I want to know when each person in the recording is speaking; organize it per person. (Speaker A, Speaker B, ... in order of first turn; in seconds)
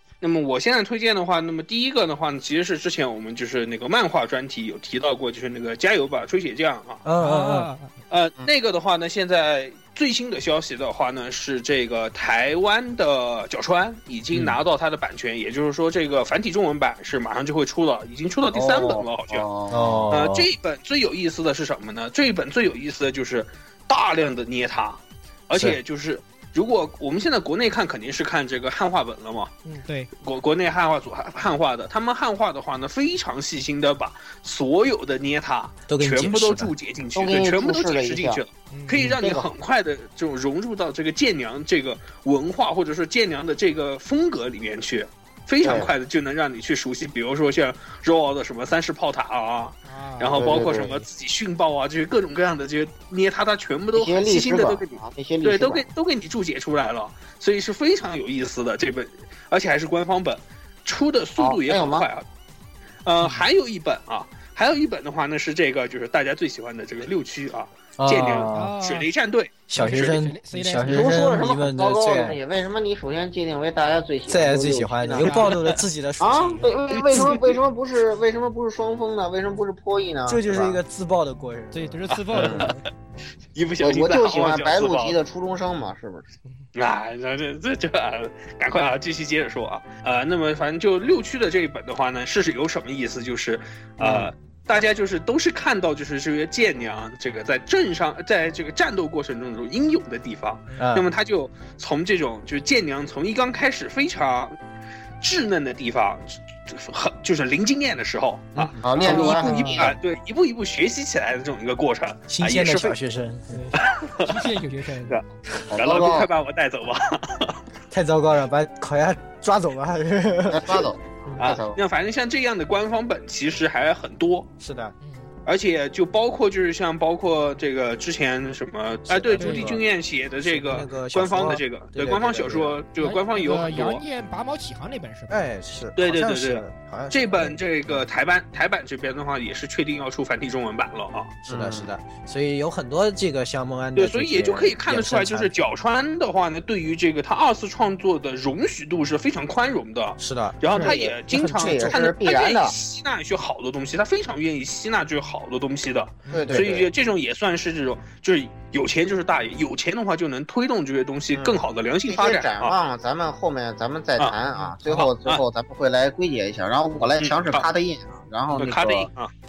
Speaker A: 0.2-7.0, 8.1-19.4, 20.1-29.5, 30.2-62.2, 63.0-70.2, 82.1-82.7, 83.5-85.2, 86.7-104.5, 105.2-113.0, 113.8-114.4, 115.1-117.6, 121.4-124.5, 125.5-134.0, 136.0-141.3, 143.9-162.8, 164.9-165.4, 167.2-167.7, 168.5-169.3
Speaker B: 7.0-7.7, 14.3-14.6, 19.7-20.5, 25.5-25.8, 35.9-36.7, 68.0-68.7, 69.7-72.4, 74.3-77.4, 80.3-82.0, 94.0-94.3, 100.8-101.1, 108.5-109.3, 112.3-113.8, 117.9-120.9, 124.6-124.9, 129.1-129.8, 130.4-132.8, 135.3-137.6, 141.4-145.5, 150.2-150.6, 151.3-152.0
Speaker C: 7.2-7.9, 29.6-30.1, 38.7-39.1, 49.8-50.8, 68.5-69.1, 69.8-71.2, 75.2-75.5, 81.7-82.9, 108.9-109.8, 113.5-115.2, 125.0-125.3, 129.4-129.7, 133.0-135.4, 156.2-156.6
Speaker D: 18.5-20.0, 37.1-38.4, 39.2-39.5, 45.6-45.9, 50.3-51.0, 53.9-55.9, 61.4-62.1, 70.9-75.5, 76.2-80.8, 82.3-82.7, 83.8-86.2, 108.8-109.9, 115.7-116.3, 120.5-121.8, 141.5-141.9, 150.7-152.7, 156.3-156.9, 161.3-169.1